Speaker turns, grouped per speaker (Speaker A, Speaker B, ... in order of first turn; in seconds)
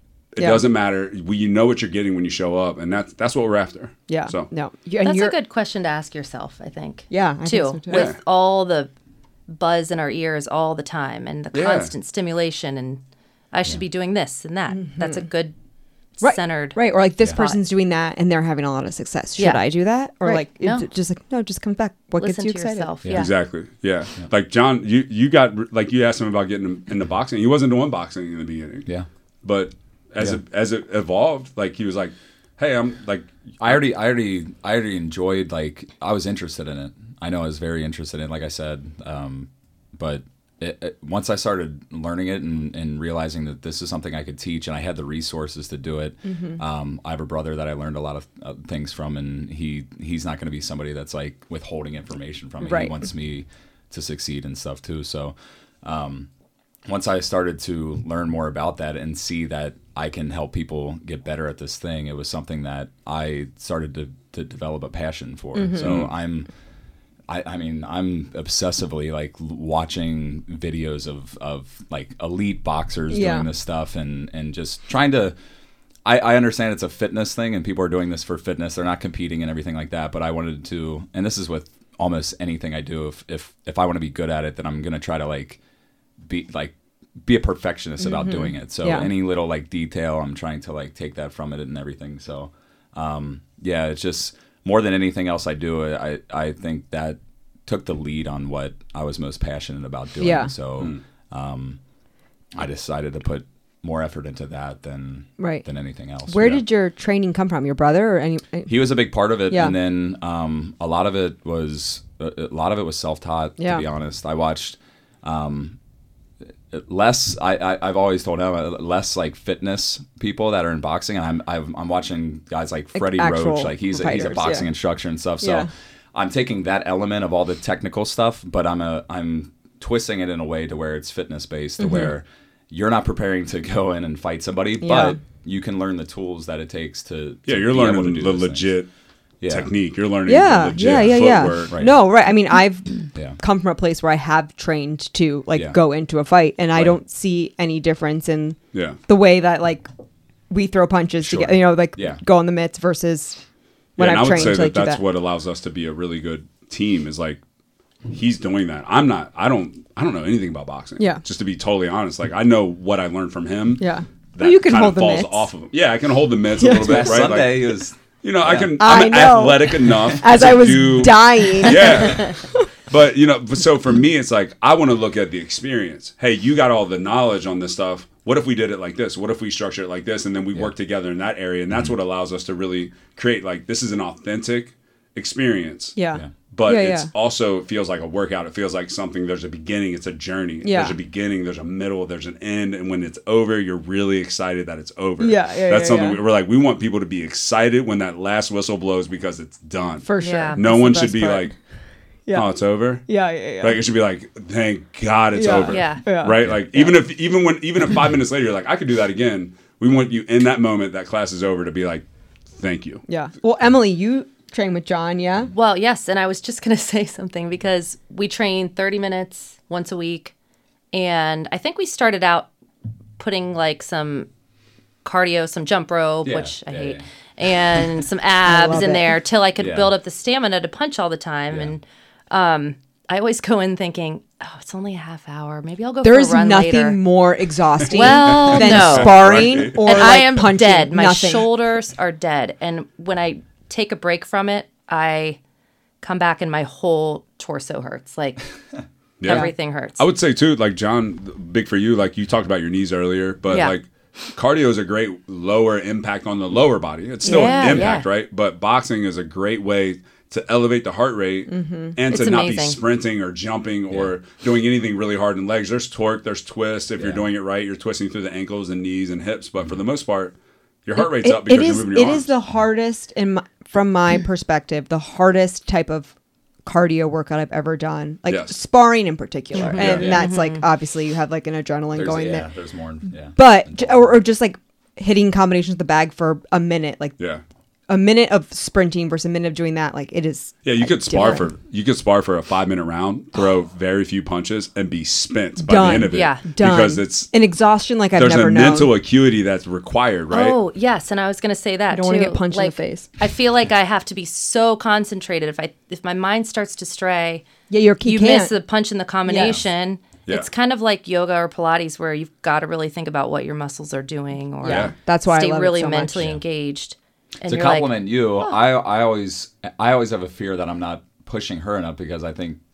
Speaker A: 0.3-4.5, 7.9-8.2, 11.5-11.9, 23.1-28.9, 29.4-33.3, 65.8-66.1, 137.5-138.9, 139.4-141.8, 148.7-149.0, 154.0-157.4, 158.1-186.0, 186.5-201.5, 202.3-203.1, 203.6-212.0, 212.6-213.0, 237.9-240.2, 249.2-272.3, 278.3-278.6, 279.7-280.2, 290.6-297.3, 298.1-300.6, 314.6-314.9
Speaker B: 0.4-0.6, 4.1-5.3, 7.1-8.1, 14.7-15.2, 16.2-22.9, 46.2-46.6, 52.6-53.0, 65.5-65.9, 73.1-73.5, 88.0-89.1, 100.2-100.5, 105.4-105.6, 106.3-108.7, 109.5-109.8, 113.6-113.8, 122.9-124.7, 125.4-125.7, 131.8-132.1, 134.8-135.2, 140.2-149.9, 150.5-153.4, 154.0-155.0, 163.8-165.5, 166.6-167.3, 168.8-172.6, 185.9-187.1, 190.6-191.0, 195.2-196.2, 200.0-201.5, 203.1-203.8, 205.3-206.4, 213.1-215.5, 228.4-229.2, 236.0-241.5, 249.2-249.5, 257.2-257.8, 261.5-262.0, 270.9-276.1, 276.6-282.5, 283.2-287.1, 287.9-291.5, 295.6-298.9, 301.9-303.1, 307.7-308.5, 309.2-309.6, 314.6-316.2
Speaker C: 5.0-8.9, 9.5-13.0, 13.5-15.5, 16.2-16.8, 19.4-19.6, 20.2-20.9, 22.2-23.3, 200.2-200.6, 205.7-206.0, 215.5-220.3, 220.9-222.5, 223.2-224.3, 225.0-237.0, 237.8-245.4, 246.0-248.4, 249.2-250.0, 253.5-253.8, 257.2-258.1, 262.1-262.8, 279.5-280.6, 296.1-296.4, 300.3-307.5, 308.0-318.6
Speaker D: 17.2-17.5, 33.6-56.3, 56.9-66.5, 67.3-75.3, 76.0-85.6, 86.2-101.8, 102.5-106.6, 108.7-115.8, 116.7-138.8, 139.4-139.7, 140.8-142.0, 143.1-143.4, 151.2-152.2, 166.6-168.9, 206.4-206.9, 226.2-227.0, 229.6-229.9, 267.0-267.2, 279.8-280.3, 281.9-284.1, 316.1-316.4, 317.4-322.6